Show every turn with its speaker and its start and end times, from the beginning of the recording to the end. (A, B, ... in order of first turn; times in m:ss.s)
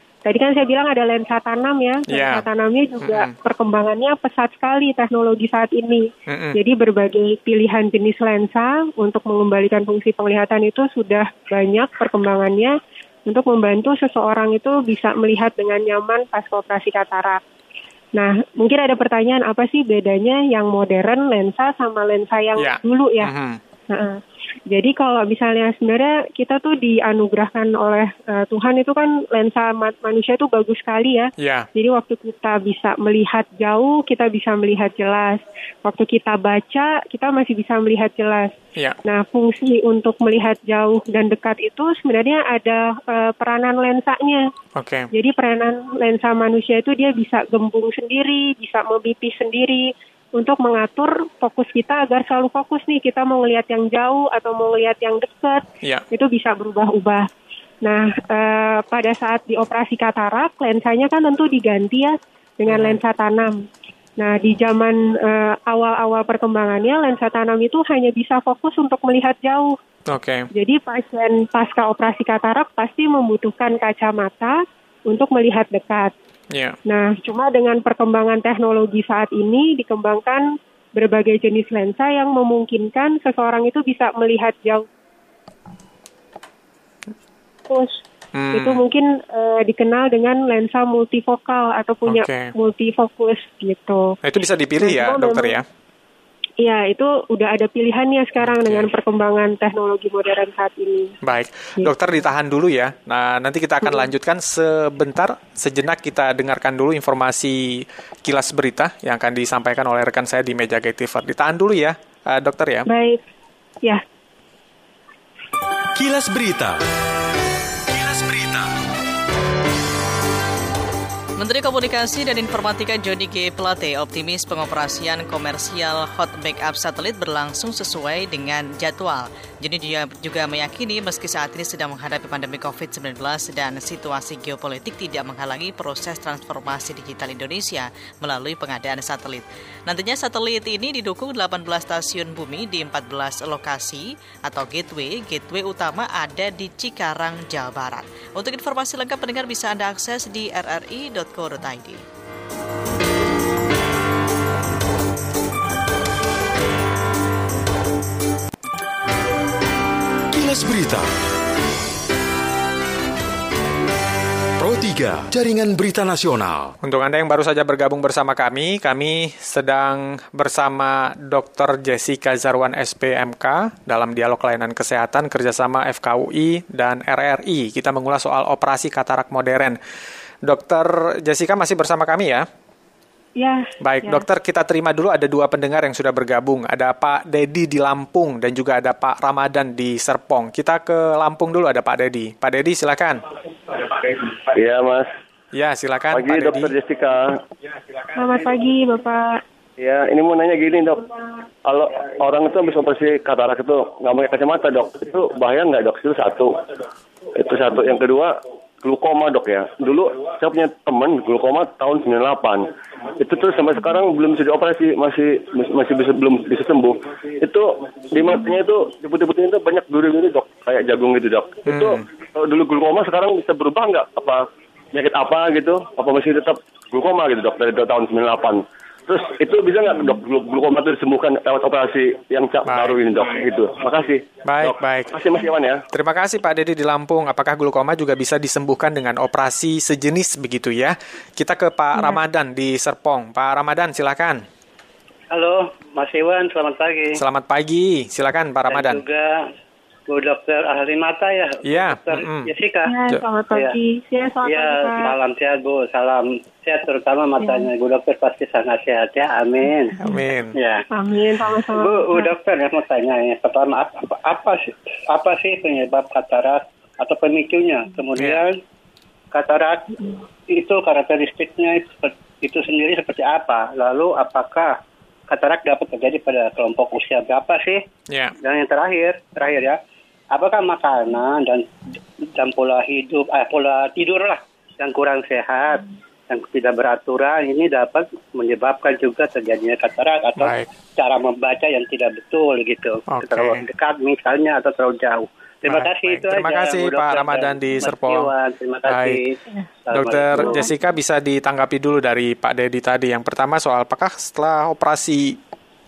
0:00.2-0:12.7 A
0:02.1-0:02.4 B
0:03.0-0:03.3 B
0:06.3-0:06.6 B
0:13.3-0:17.4 A
0:18.2-0:23.3 A
0:22.6-0:23.6 B
0:23.9-0:38.5 A
0:31.4-0:31.7 B
0:39.0-0:44.4 A
0:44.7-0:45.1 B
0:45.1-0:57.2 A
0:57.8-1:03.6 A
1:02.7-1:03.0 B
1:04.2-1:09.7 A
1:10.1-1:10.5 B
1:10.5-1:16.1 A
1:16.5-1:16.8 B
1:16.9-1:24.8 A
1:27.7-1:28.0 A
1:28.3-1:28.8 B
1:28.5-1:34.1 A
1:32.0-1:32.5 B
1:34.2-1:35.6 B
1:34.8-1:35.6 A
1:36.6-1:41.1 A
1:38.4-1:38.9 B
1:41.2-1:52.9 B
1:52.9-1:53.2 A
1:55.9-1:56.8 C
1:57.9-1:58.7 C
2:01.4-2:32.0 D
2:40.3-2:41.1 C
2:44.6-2:46.7 C
2:46.8-2:59.8 B
3:00.4-3:02.4 B
3:03.4-3:04.2 A
3:03.8-3:13.2 B
3:13.8-3:15.1 E
3:15.5-3:16.7 B
3:16.1-3:17.4 E
3:18.1-3:19.4 A
3:19.8-3:26.6 E
3:27.3-3:55.8 E
3:38.2-3:38.5 A
3:41.7-3:42.0 B
3:52.6-3:53.0 B
3:54.4-3:55.1 B
3:55.9-4:04.4 B
4:05.3-4:07.2 F
4:07.2-4:09.0 B
4:08.7-4:09.3 F
4:10.1-4:12.9 F
4:11.6-4:12.5 B
4:12.9-4:15.1 A
4:14.4-4:20.0 F
4:17.4-4:17.7 A
4:20.0-4:20.5 B
4:20.5-4:20.8 F
4:20.9-4:22.3 A
4:21.7-4:28.6 F
4:29.3-4:34.7 F
4:35.3-4:37.8 F
4:38.1-4:38.3 B
4:38.4-4:39.8 F
4:40.3-4:41.6 F
4:42.4-5:00.6 F
4:50.4-4:50.7 B
4:53.1-4:53.6 B
4:55.7-4:58.3 B
4:58.8-4:59.2 B
4:59.9-5:05.4 B
5:00.4-5:00.7 A